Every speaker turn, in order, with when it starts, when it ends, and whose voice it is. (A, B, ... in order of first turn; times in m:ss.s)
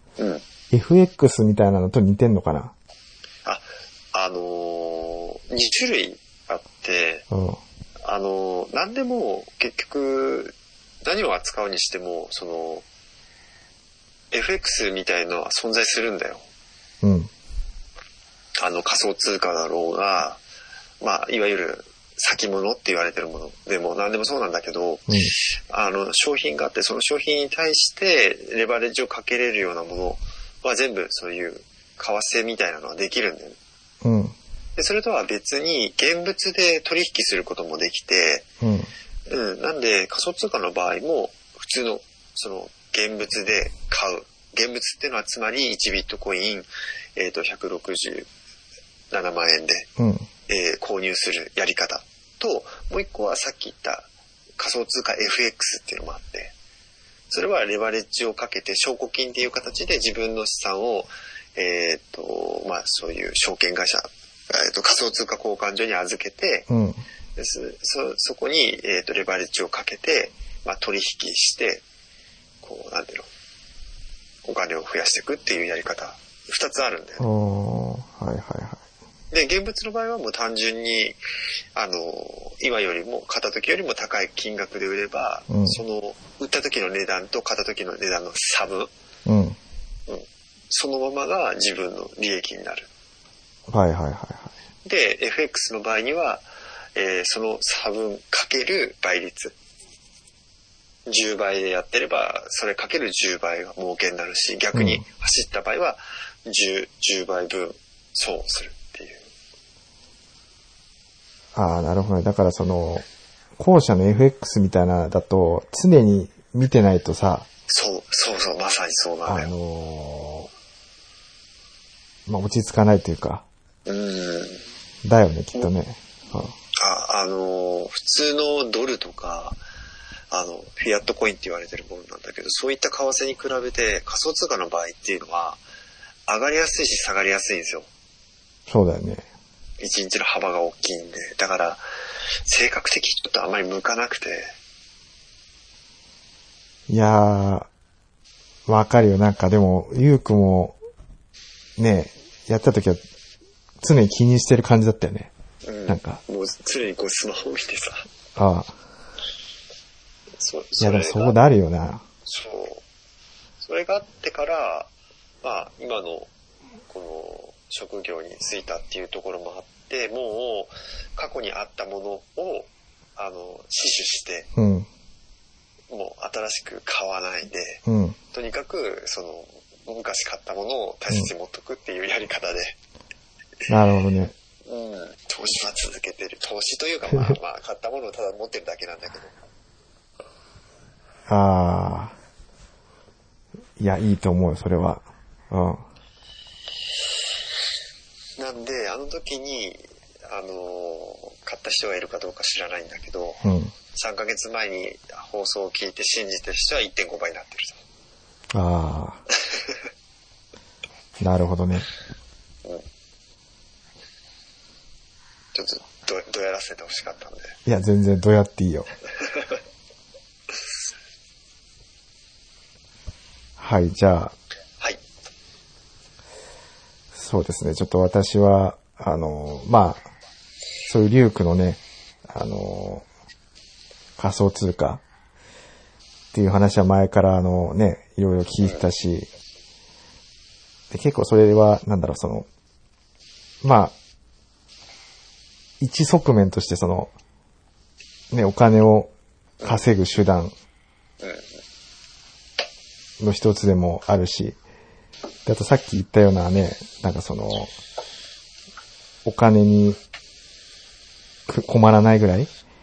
0:00.2-0:00.4 A
0:00.7-0:02.7 B
0:03.5-0:07.3 A
0:07.3-0:07.6 B
0:08.0-0:12.9 A
0:14.3-0:16.5 A
0:17.0-0:17.3 B
0:18.6-0:20.4 A
0:21.0-0:33.6 A
0:25.1-0:25.3 B
0:34.0-0:34.4 B
0:34.8-0:38.5 A
0:38.6-0:38.9 B
0:39.3-0:48.3 A
0:49.1-0:49.9 A
0:50.0-0:50.3 B
0:50.5-0:56.5 A
0:57.3-1:06.7 A
1:06.7-1:07.0 B
1:07.4-1:11.8 A
1:12.6-1:13.3 A
1:14.4-1:17.3 A
1:17.2-1:18.8 B
1:19.3-1:21.2 A
1:21.7-1:28.9 A
1:25.5-1:25.8 B
1:29.3-1:29.6 B
1:30.1-1:32.9 A
1:33.7-1:34.5 B
1:34.8-1:39.6 A
1:41.1-1:49.3 A
1:44.7-1:45.0 B
1:51.6-1:53.1 B
1:53.6-1:57.5 B
1:57.7-1:59.5 A
1:59.3-2:00.5 B
2:02.3-2:03.4 B
2:03.9-2:04.6 A
2:05.0-2:06.6 B
2:06.8-2:09.6 A
2:10.3-2:15.6 A
2:16.3-2:17.9 A
2:18.7-2:19.3 B
2:19.8-2:21.8 A
2:22.5-2:24.5 A
2:26.9-2:27.7 B
2:28.7-2:30.8 B
2:31.8-2:33.0 B
2:33.8-2:35.3 B
2:35.6-2:38.1 A
2:35.9-2:36.2 B
2:38.4-2:38.8 B
2:40.4-2:41.4 A
2:40.8-2:42.0 B
2:42.3-2:42.9 A
2:43.6-2:44.9 A
2:45.4-2:46.3 A
2:46.9-2:54.5 A
2:54.6-2:54.9 B
2:55.9-3:02.8 A
2:57.9-2:58.2 B
3:03.7-3:04.3 B
3:04.7-3:09.3 A
3:11.3-3:12.2 B
3:13.8-3:15.8 B
3:18.4-3:27.8 A
3:23.4-3:23.7 B
3:28.5-3:29.2 B
3:31.2-3:31.9 B
3:35.5-3:37.6 A
3:37.7-3:38.9 B
3:43.6-3:44.4 B
3:47.1-3:50.1 B
3:50.9-3:53.0 B
3:54.2-3:55.0 B
3:56.3-3:59.3 B
4:00.9-4:02.5 B
4:03.6-4:04.0 B
4:05.8-4:07.1 B
4:08.3-4:09.1 B
4:09.6-4:09.9 A
4:09.6-4:10.5 B
4:11.2-4:11.5 A
4:13.2-4:14.6 B
4:15.5-4:17.8 B
4:19.2-4:20.0 B
4:21.5-4:22.5 B